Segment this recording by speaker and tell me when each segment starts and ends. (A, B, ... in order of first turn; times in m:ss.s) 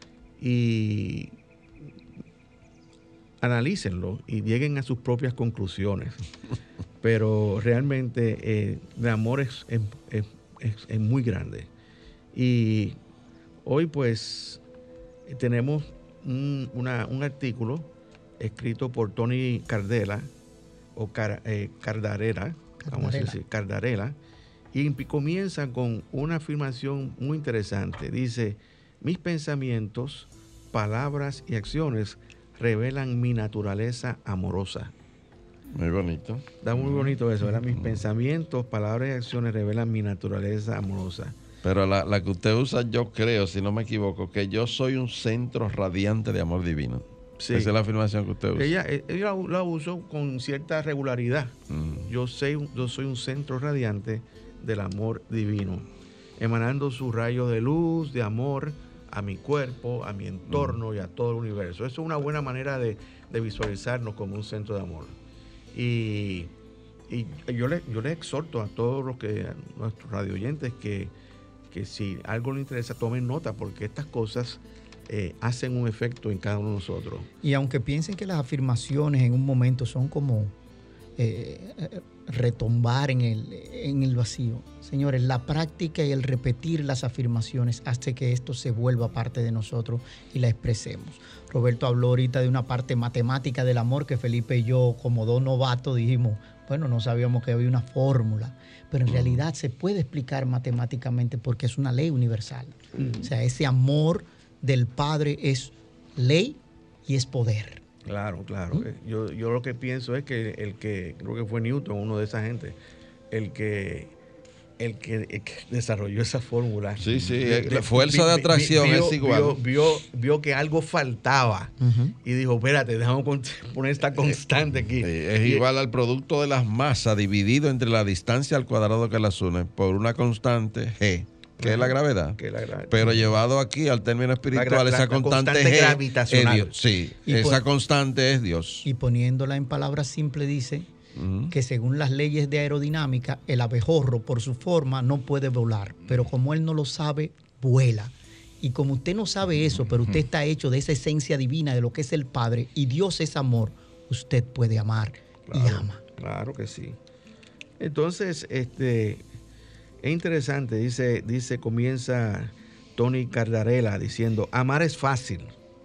0:00.4-0:01.3 A
0:03.4-0:06.2 A
0:07.0-0:11.7 A
0:12.3-0:13.0 A
0:13.6-0:14.6 A
0:15.2-0:20.3 A
0:20.9-0:24.2 A
0:22.8-0:23.4 B
0:24.7-0:34.9 A
0:35.7-0:38.0 C
0:36.6-0:41.4 A
0:41.6-0:48.7 C
0:47.4-0:47.7 A
0:48.6-0:55.9 A
0:51.7-0:52.1 C
0:56.4-1:05.2 A
1:00.5-1:00.8 C
1:05.7-1:06.5 A
1:07.1-1:11.1 A
1:11.7-1:17.3 A
1:17.4-1:20.5 B
1:21.2-1:47.8 B
1:39.1-1:39.4 C
1:43.0-1:43.2 A
1:48.0-1:52.8 A
1:53.3-1:54.2 A
1:54.8-2:05.6 A
1:57.0-1:59.6 C
2:01.8-2:02.2 B
2:04.2-2:04.4 C
2:05.0-2:18.9 C
2:11.6-2:13.2 A
2:14.5-2:16.7 A
2:17.3-2:17.6 B
2:18.8-2:20.9 B
2:21.1-2:21.5 C
2:21.5-2:36.0 B
2:35.5-2:37.0 A
2:37.8-2:39.2 A
2:40.0-2:45.5 A